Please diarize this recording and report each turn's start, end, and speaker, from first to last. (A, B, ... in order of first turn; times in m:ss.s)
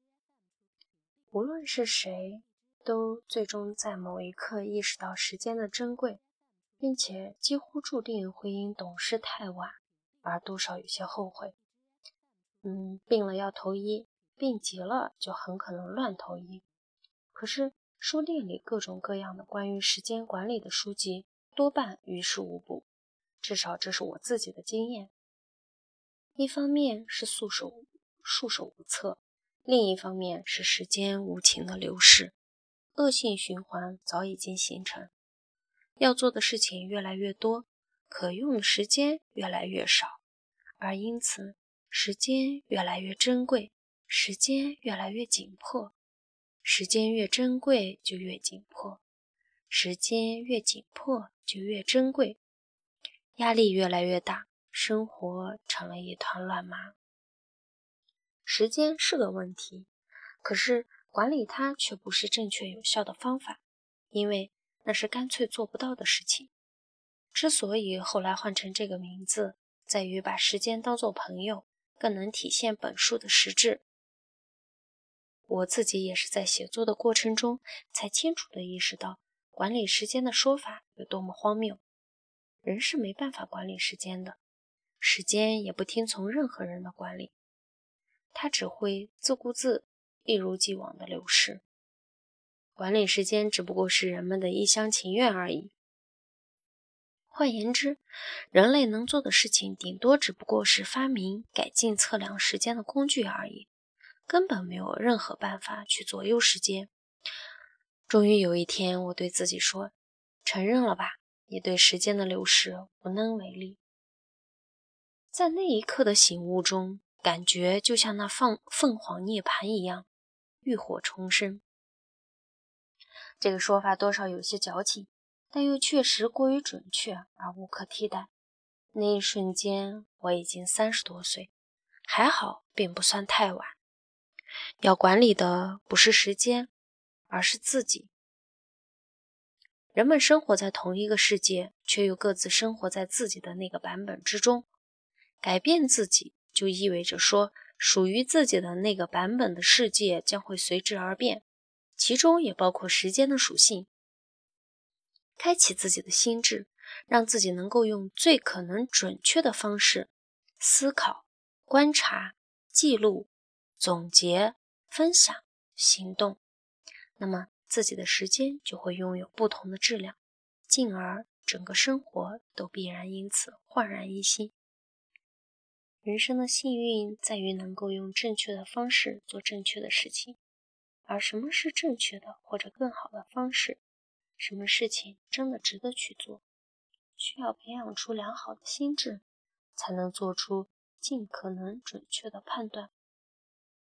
0:01.3-0:06.2 A
0:06.8-0:11.5 A
0:12.6-0:16.6 A
0:17.3-0:22.8 A
0:23.4-0:25.1 A
0:26.4-0:32.3 A
0:33.0-0:35.1 A
0:36.0-0:40.2 A
0:40.8-0:46.0 A
0:46.6-0:49.0 A
0:49.7-0:52.4 A
0:53.4-0:56.9 A
0:58.4-0:59.9 A
1:00.4-1:03.6 A
1:04.1-1:06.5 A
1:07.3-1:13.8 A
1:15.5-1:21.8 A
1:22.6-1:24.4 A
1:25.0-1:27.3 A
1:28.3-1:31.6 A
1:32.8-1:35.7 A
1:37.3-1:43.7 A
1:44.3-1:46.9 A
1:48.1-1:49.9 A
1:50.4-1:53.8 A
1:55.3-2:00.1 A
2:00.6-2:01.6 A
2:03.4-2:08.3 A
2:08.9-2:11.5 A
2:12.1-2:13.7 A
2:14.8-2:16.7 A
2:17.3-2:18.1 A
2:19.9-2:24.7 A
2:25.4-2:31.4 A
2:32.0-2:33.9 A
2:35.4-2:46.4 A
2:47.2-2:50.2 A
2:50.7-2:54.5 A
2:56.0-3:00.4 A
3:01.1-3:03.8 A
3:04.4-3:06.4 A
3:07.2-3:09.2 A
3:09.8-3:12.9 A